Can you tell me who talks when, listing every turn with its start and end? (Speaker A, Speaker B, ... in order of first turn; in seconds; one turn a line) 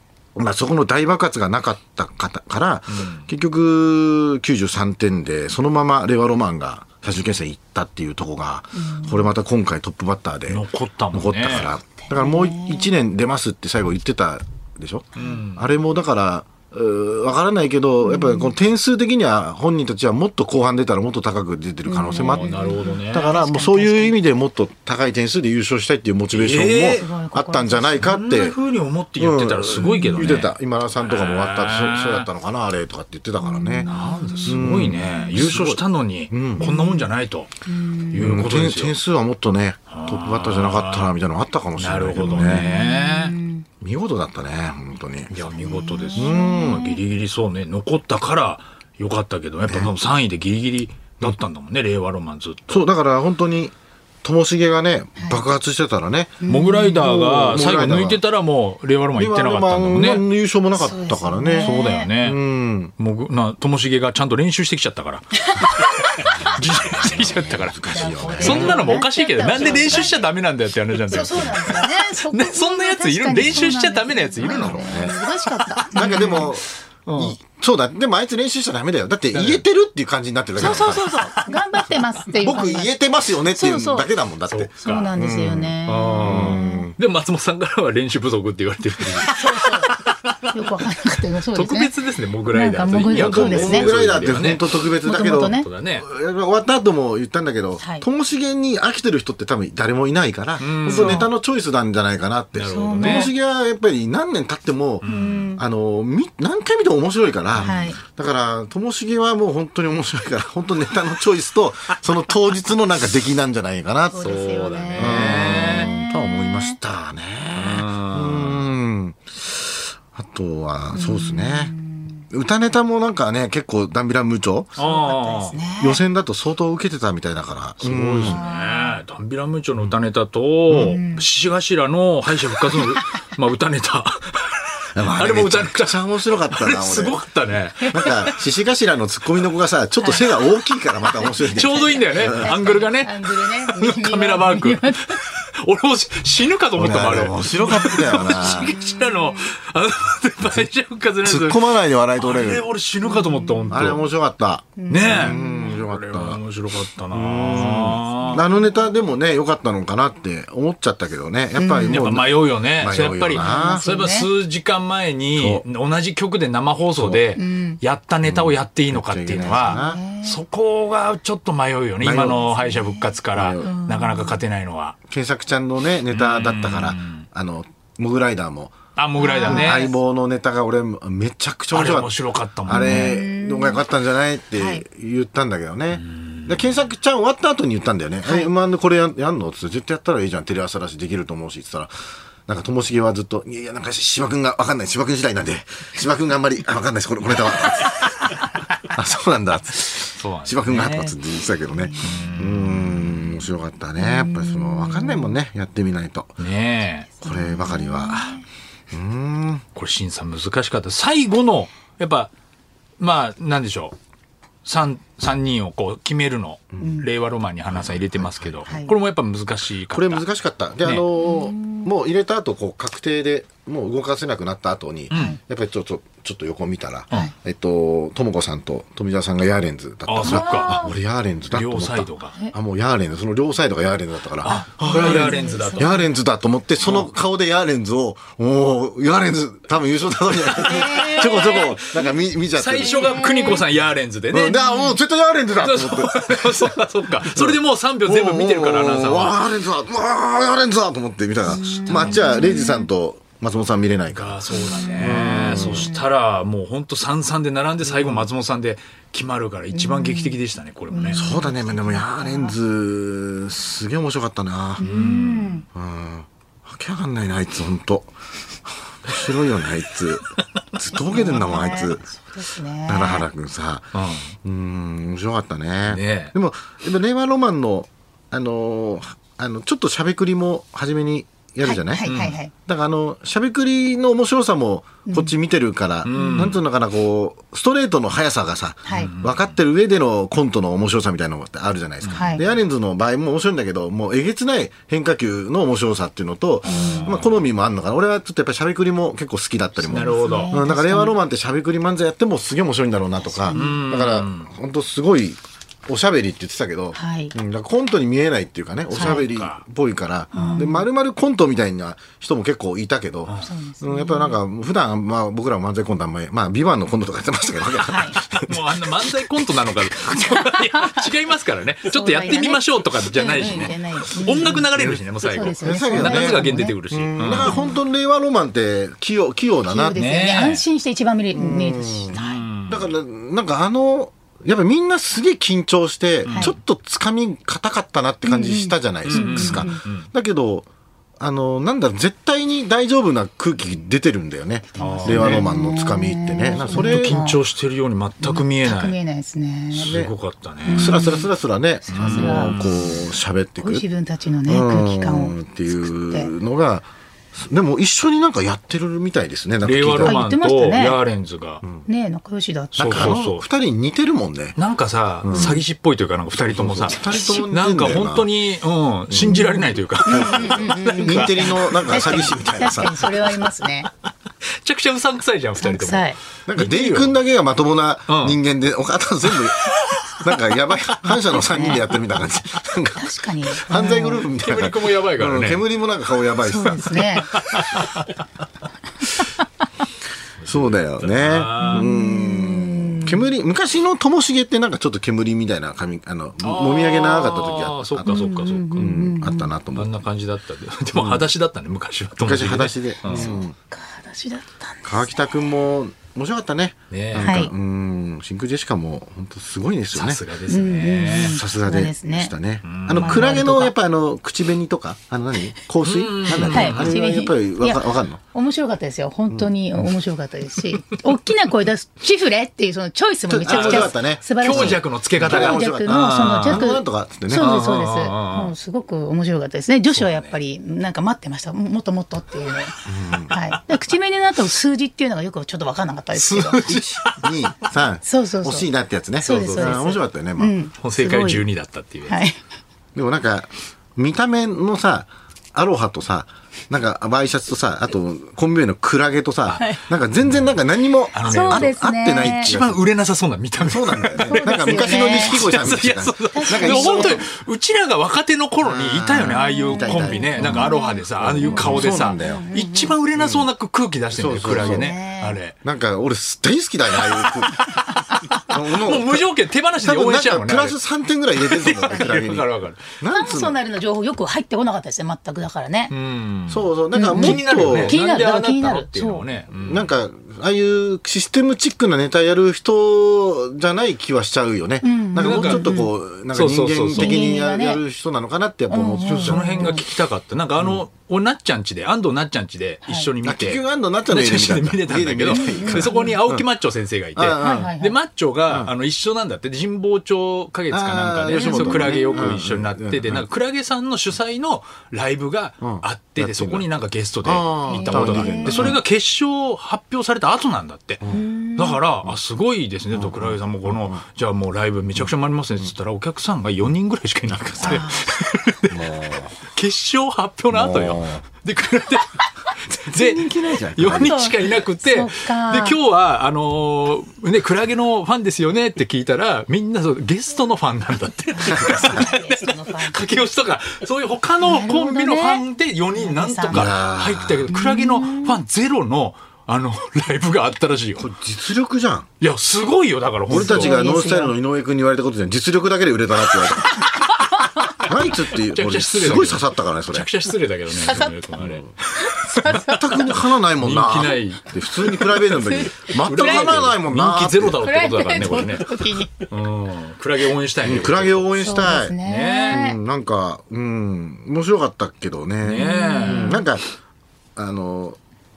Speaker A: 0.3-28.6
Speaker B: 2.9-3.2
Speaker C: 8.7-9.3
Speaker B: 10.5-11.7
Speaker C: 12.1-12.9
Speaker C: 15.2-15.4
Speaker B: 15.2-15.7
Speaker C: 18.0-18.5
Speaker C: 21.9-24.1
Speaker B: 22.1-23.3
Speaker B: 26.3-27.1
Speaker C: 26.9-28.1
Speaker B: 28.0-32.3
Speaker A: 29.2-36.7
Speaker C: 29.8-30.4
Speaker C: 33.4-35.5
Speaker B: 33.8-37.5
Speaker C: 36.6-37.1
Speaker C: 37.6-38.2
Speaker B: 38.1-39.0
Speaker A: 38.1-42.7
Speaker B: 39.9-41.1
Speaker B: 41.8-43.4
Speaker C: 42.2-43.6
Speaker A: 43.8-45.3
Speaker B: 45.3-52.8
Speaker C: 45.5-47.0
Speaker A: 46.1-46.9
Speaker A: 52.7-58.2
Speaker C: 55.2-55.4
Speaker C: 56.4-57.0
Speaker B: 56.5-60.2
Speaker A: 59.1-62.9
Speaker C: 60.8-62.1
Speaker B: 61.6-62.4
Speaker B: 63.0-65.4
Speaker C: 65.4-66.6
Speaker B: 66.1-75.2
Speaker A: 66.2-69.0
Speaker C: 67.9-70.3
Speaker A: 69.6-70.1
Speaker C: 71.1-76.5
Speaker A: 71.3-71.6
Speaker A: 74.4-75.2
Speaker B: 75.8-77.4
Speaker A: 75.9-81.1
Speaker B: 79.3-79.6
Speaker C: 80.6-82.9
Speaker B: 80.6-81.5
Speaker A: 82.4-87.0
Speaker C: 83.5-84.1
Speaker B: 84.5-85.1
Speaker C: 84.8-86.9
Speaker B: 85.8-90.5
Speaker C: 89.2-89.9
Speaker C: 90.5-91.9
Speaker B: 91.5-94.7
Speaker C: 92.5-93.9
Speaker A: 92.9-114.3
Speaker C: 95.0-95.7
Speaker B: 95.4-96.1
Speaker C: 97.8-98.0
Speaker B: 100.6-101.2
Speaker C: 100.8-101.3
Speaker B: 102.5-103.3
Speaker C: 102.7-103.3
Speaker B: 105.0-105.5
Speaker C: 105.0-105.6
Speaker B: 107.5-107.8
Speaker C: 107.6-108.0
Speaker C: 114.1-116.8
Speaker B: 114.2-115.9
Speaker A: 115.0-121.7
Speaker B: 117.5-118.7
Speaker C: 120.9-122.2
Speaker A: 122.3-124.7
Speaker B: 124.8-125.6
Speaker C: 124.8-126.0
Speaker A: 125.8-128.4
Speaker B: 127.8-138.3
Speaker C: 128.2-129.0
Speaker A: 130.7-131.0
Speaker C: 130.8-131.2
Speaker C: 132.7-133.0
Speaker A: 134.9-137.2
Speaker A: 137.8-142.5
Speaker C: 140.0-140.4
Speaker C: 141.2-145.2
Speaker B: 141.4-154.0
Speaker A: 146.7-148.7
Speaker C: 147.8-149.5
Speaker A: 150.4-150.7
Speaker A: 151.2-152.7
Speaker C: 153.0-153.9
Speaker A: 153.7-156.4
Speaker C: 154.8-155.8
Speaker B: 154.9-158.4
Speaker A: 157.1-163.8
Speaker C: 158.2-158.8
Speaker C: 161.6-162.0
Speaker B: 161.8-175.0
Speaker C: 163.3-164.3
Speaker A: 165.3-165.6
Speaker A: 166.9-167.2
Speaker C: 167.3-167.8
Speaker A: 168.2-170.0
Speaker C: 169.7-170.4
Speaker A: 172.0-172.5
Speaker C: 172.4-174.4
Speaker A: 173.3-173.7
Speaker A: 175.1-178.8
Speaker B: 176.1-177.2
Speaker B: 178.9-179.9
Speaker C: 179.2-179.9
Speaker A: 179.4-182.1
Speaker B: 181.7-183.2
Speaker A: 182.6-191.9
Speaker C: 182.7-183.8
Speaker C: 184.6-184.8
Speaker B: 186.0-186.6
Speaker C: 188.2-188.5
Speaker A: 192.5-206.4
Speaker B: 199.9-201.2
Speaker C: 201.8-202.3
Speaker B: 202.0-203.4
Speaker C: 204.0-205.3
Speaker B: 206.4-207.1
Speaker A: 207.2-208.4
Speaker C: 207.2-208.4
Speaker A: 208.9-209.6
Speaker B: 209.7-212.3
Speaker B: 213.0-213.9
Speaker B: 214.6-220.2
Speaker C: 216.8-217.1
Speaker A: 217.7-218.7
Speaker C: 218.7-218.9
Speaker A: 219.9-243.3
Speaker C: 221.2-221.9
Speaker B: 225.1-225.4
Speaker C: 225.1-225.4
Speaker B: 230.1-230.9
Speaker C: 230.2-230.9
Speaker B: 231.5-232.3
Speaker B: 234.4-236.0
Speaker C: 234.8-236.1
Speaker B: 236.8-237.1
Speaker B: 240.6-241.8
Speaker C: 240.6-241.9
Speaker B: 242.5-244.7
Speaker C: 242.8-243.6
Speaker A: 244.3-246.8
Speaker C: 244.6-244.9
Speaker B: 245.6-249.3
Speaker A: 247.3-255.9
Speaker C: 251.4-252.9
Speaker B: 251.9-252.5
Speaker B: 254.1-261.3
Speaker C: 254.5-256.0
Speaker C: 259.7-260.4
Speaker C: 260.9-262.6
Speaker A: 261.1-264.9
Speaker C: 264.8-265.6
Speaker B: 264.8-265.6
Speaker A: 265.7-268.1
Speaker A: 268.6-272.0
Speaker C: 271.0-273.2
Speaker A: 272.9-273.9
Speaker B: 273.9-274.3
Speaker A: 274.4-318.6
Speaker B: 275.9-276.3
Speaker C: 281.6-282.5
Speaker B: 282.1-282.4
Speaker C: 285.1-285.3
Speaker B: 286.0-286.6
Speaker C: 286.1-286.5
Speaker C: 288.8-289.1
Speaker B: 288.9-289.5
Speaker B: 292.0-292.4
Speaker C: 292.1-292.5
Speaker C: 296.6-297.1
Speaker B: 296.6-297.4
Speaker C: 299.8-301.1
Speaker B: 299.9-300.5
Speaker C: 303.5-303.8
Speaker B: 303.5-304.5
Speaker C: 306.9-307.3
Speaker B: 308.9-309.6
Speaker C: 308.9-309.2
Speaker B: 310.3-310.6
Speaker C: 310.3-310.8
Speaker C: 313.4-314.4
Speaker C: 317.9-318.2
Speaker B: 318.2-327.7
Speaker C: 320.7-321.0
Speaker C: 321.9-324.7
Speaker A: 324.5-325.0
Speaker C: 325.2-326.7
Speaker A: 325.6-330.1
Speaker C: 327.3-327.8
Speaker C: 329.7-332.4
Speaker B: 329.9-330.6
Speaker A: 331.3-332.2
Speaker B: 332.1-332.9
Speaker A: 332.7-340.7
Speaker B: 336.2-336.5
Speaker C: 338.2-339.8
Speaker B: 339.0-340.1
Speaker A: 341.2-347.2
Speaker C: 344.7-347.4
Speaker B: 344.8-345.5
Speaker B: 346.6-348.9
Speaker C: 348.2-349.9
Speaker B: 349.7-351.0
Speaker A: 349.8-350.1
Speaker C: 350.6-351.3
Speaker A: 350.7-353.8
Speaker C: 351.9-352.5
Speaker B: 351.9-353.0
Speaker C: 353.6-356.3
Speaker A: 354.5-360.2
Speaker B: 359.6-361.6
Speaker C: 360.0-361.0
Speaker C: 361.8-363.2
Speaker A: 362.8-364.6
Speaker B: 362.8-363.4
Speaker B: 364.6-372.2
Speaker A: 365.2-365.6
Speaker A: 366.4-368.3
Speaker A: 369.1-369.5
Speaker C: 369.2-373.9
Speaker A: 370.0-373.0
Speaker B: 374.6-377.1
Speaker C: 375.6-376.2
Speaker A: 376.5-387.1
Speaker B: 378.1-378.4
Speaker B: 379.3-381.8
Speaker C: 381.2-381.8
Speaker C: 383.0-384.2
Speaker B: 383.8-385.6
Speaker C: 386.4-387.3
Speaker B: 386.8-388.1
Speaker B: 390.4-391.9
Speaker A: 390.4-399.9
Speaker C: 391.6-393.3
Speaker B: 396.4-399.0
Speaker C: 398.0-399.5
Speaker B: 399.7-403.3
Speaker A: 400.9-401.3
Speaker A: 402.2-403.5
Speaker C: 403.1-405.5
Speaker A: 404.8-410.2
Speaker B: 406.9-407.4
Speaker C: 407.2-407.5
Speaker B: 409.9-411.4
Speaker C: 410.5-412.3
Speaker A: 411.1-418.2
Speaker B: 412.6-413.4
Speaker C: 412.9-413.7
Speaker B: 415.8-416.9
Speaker C: 416.3-432.7
Speaker A: 423.3-427.6
Speaker B: 423.5-426.7
Speaker B: 427.3-428.5
Speaker B: 429.9-430.3
Speaker A: 432.9-433.3
Speaker C: 433.3-436.6
Speaker B: 436.1-437.3
Speaker A: 436.6-440.5
Speaker C: 438.0-438.7
Speaker C: 439.2-441.4
Speaker B: 439.2-439.9
Speaker B: 440.8-442.2
Speaker C: 442.1-442.4
Speaker A: 442.9-452.8
Speaker B: 450.2-450.5
Speaker B: 451.1-465.6
Speaker C: 451.2-452.6
Speaker A: 453.6-457.2
Speaker C: 454.3-455.4
Speaker C: 456.3-457.2
Speaker A: 458.6-462.5
Speaker C: 459.2-462.9
Speaker A: 463.1-463.5
Speaker A: 464.1-464.9
Speaker C: 464.5-465.4
Speaker A: 465.6-467.7
Speaker B: 467.0-470.8
Speaker A: 468.5-469.3
Speaker A: 469.8-473.6
Speaker B: 471.4-472.9
Speaker C: 473.1-475.9
Speaker B: 475.9-479.9
Speaker A: 476.5-478.0
Speaker C: 476.9-479.2
Speaker A: 479.5-489.8
Speaker C: 484.8-485.8
Speaker B: 485.2-487.3
Speaker C: 486.9-487.8
Speaker C: 488.7-489.8
Speaker B: 489.0-511.0
Speaker A: 493.2-496.4
Speaker C: 495.3-496.2
Speaker A: 497.1-497.7
Speaker C: 497.4-498.0
Speaker A: 500.7-503.2
Speaker C: 501.3-502.4
Speaker A: 505.6-506.7
Speaker A: 507.2-508.8
Speaker C: 507.7-508.7
Speaker C: 511.1-511.8
Speaker B: 511.6-518.8
Speaker A: 512.9-514.0
Speaker C: 517.6-518.1
Speaker A: 518.7-519.4
Speaker B: 519.5-541.1
Speaker A: 520.5-521.2
Speaker A: 522.9-524.2
Speaker C: 523.9-525.8
Speaker C: 531.3-533.0
Speaker A: 531.6-532.0
Speaker C: 534.4-535.4
Speaker C: 535.9-536.7
Speaker A: 536.5-537.5
Speaker C: 537.5-538.4
Speaker A: 541.0-542.1
Speaker B: 542.2-543.8
Speaker A: 543.3-546.9
Speaker C: 543.3-544.4
Speaker A: 547.8-550.1
Speaker B: 547.8-562.6
Speaker C: 550.8-551.1
Speaker A: 551.4-551.7
Speaker C: 552.0-553.1
Speaker A: 552.6-557.6
Speaker C: 555.4-556.6
Speaker C: 557.6-559.1
Speaker A: 560.6-562.0
Speaker C: 561.4-562.8
Speaker A: 562.5-566.6
Speaker B: 565.4-566.4
Speaker C: 565.5-566.4
Speaker A: 567.4-568.0